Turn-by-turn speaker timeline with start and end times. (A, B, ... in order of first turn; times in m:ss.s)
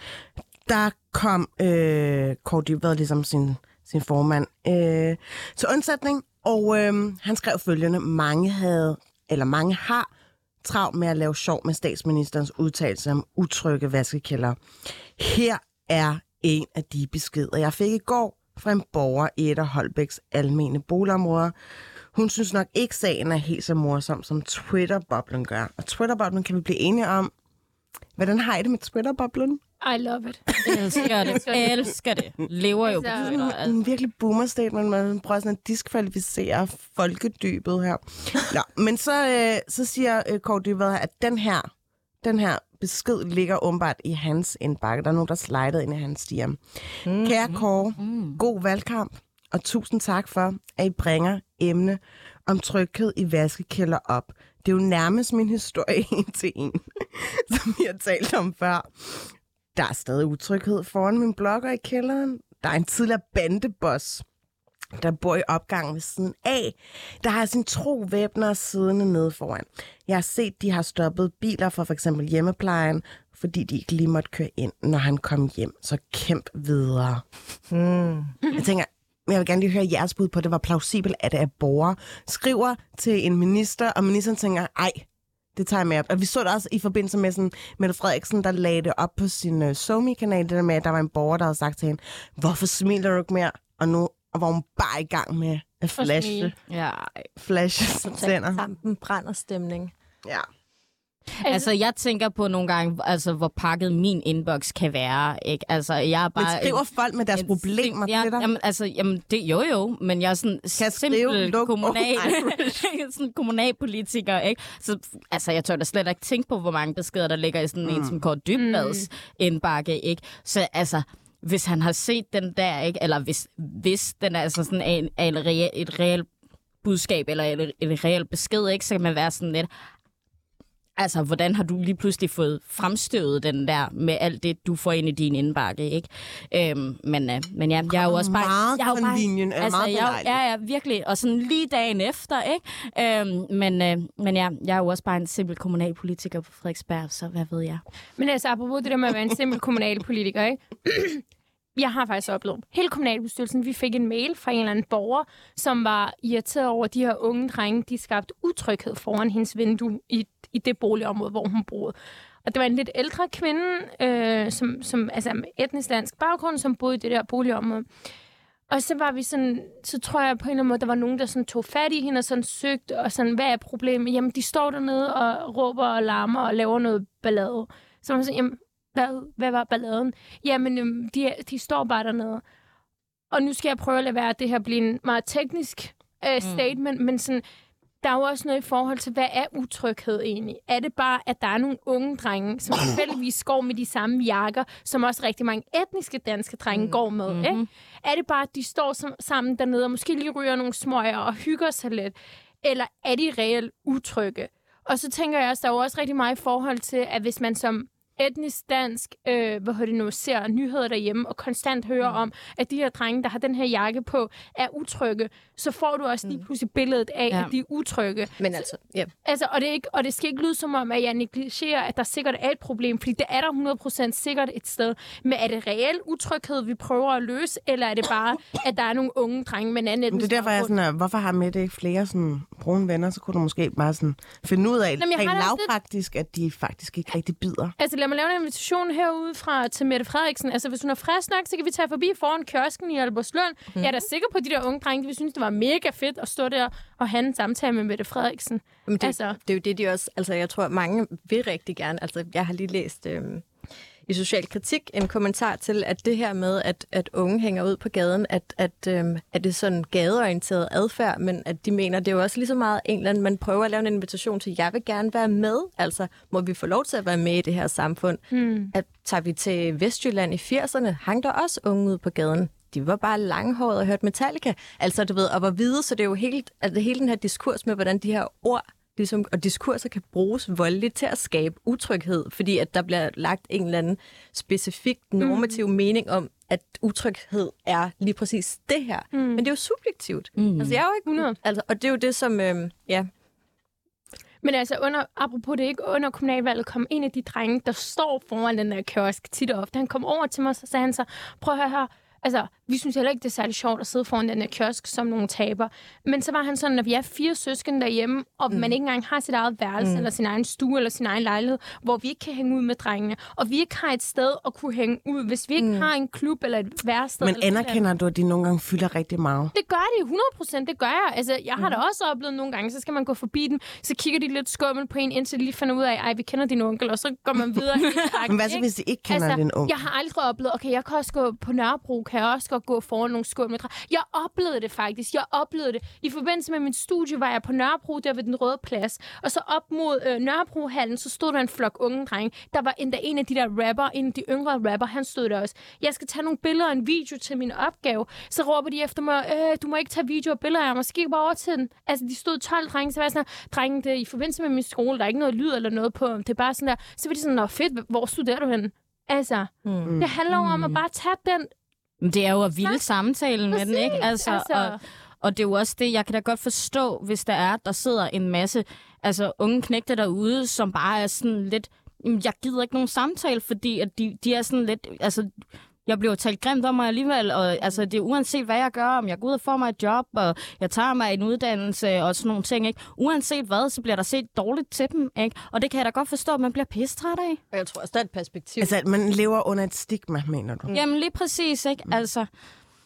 0:00.6-0:10.1 A
0:10.6-0:21.5 A
0:22.1-0:27.3 A
0:28.2-0:29.6 A
0:29.8-0:31.7 B
0:30.6-0:33.8 C
0:30.7-0:31.8 A
0:32.8-0:33.3 B
0:33.1-0:41.7 A
0:42.2-1:04.2 A
0:47.1-0:47.4 D
0:48.0-0:48.4 C
1:05.0-1:17.2 A
1:17.7-1:18.5 D
1:18.5-1:36.6 A
1:36.0-1:36.5 B
1:36.7-1:37.3 C
1:37.4-1:38.6 A
1:38.0-1:39.9 D
1:41.5-1:46.8 C
1:46.4-1:48.5 A
1:47.3-2:06.3 C
1:50.8-1:52.8 A
1:57.8-1:58.2 A
1:58.6-1:59.1 B
2:06.8-2:09.7 C
2:11.0-2:27.8 C
2:17.9-2:20.4 A
2:28.2-2:31.2 B
2:31.8-2:47.9 B
2:48.7-3:02.4 B
3:03.3-3:07.4 B
3:08.0-3:38.6 B
3:17.3-3:17.7 C
3:38.4-3:39.1 D
3:39.2-3:50.7 B
3:50.1-3:57.8 A
3:55.0-3:55.7 B
3:57.8-4:09.4 B
4:03.8-4:04.0 D
4:08.9-4:13.5 D
4:14.1-4:53.1 D
4:28.3-4:28.7 B
4:45.2-4:45.6 B
4:49.1-4:49.5 B
4:50.4-4:50.8 C
4:51.1-4:51.4 B
4:54.4-5:17.8 B
5:09.8-5:10.1 D
5:15.6-5:15.9 D
5:17.2-5:19.5 A
5:19.5-6:01.5 B
5:28.3-5:29.8 A
5:59.6-6:00.0 D
5:59.8-6:00.1 A
6:00.3-6:00.8 C
6:02.0-6:15.3 C
6:03.5-6:04.8 B
6:15.9-6:27.4 C
6:27.5-6:28.7 D
6:28.6-6:30.7 A
6:30.7-6:32.3 C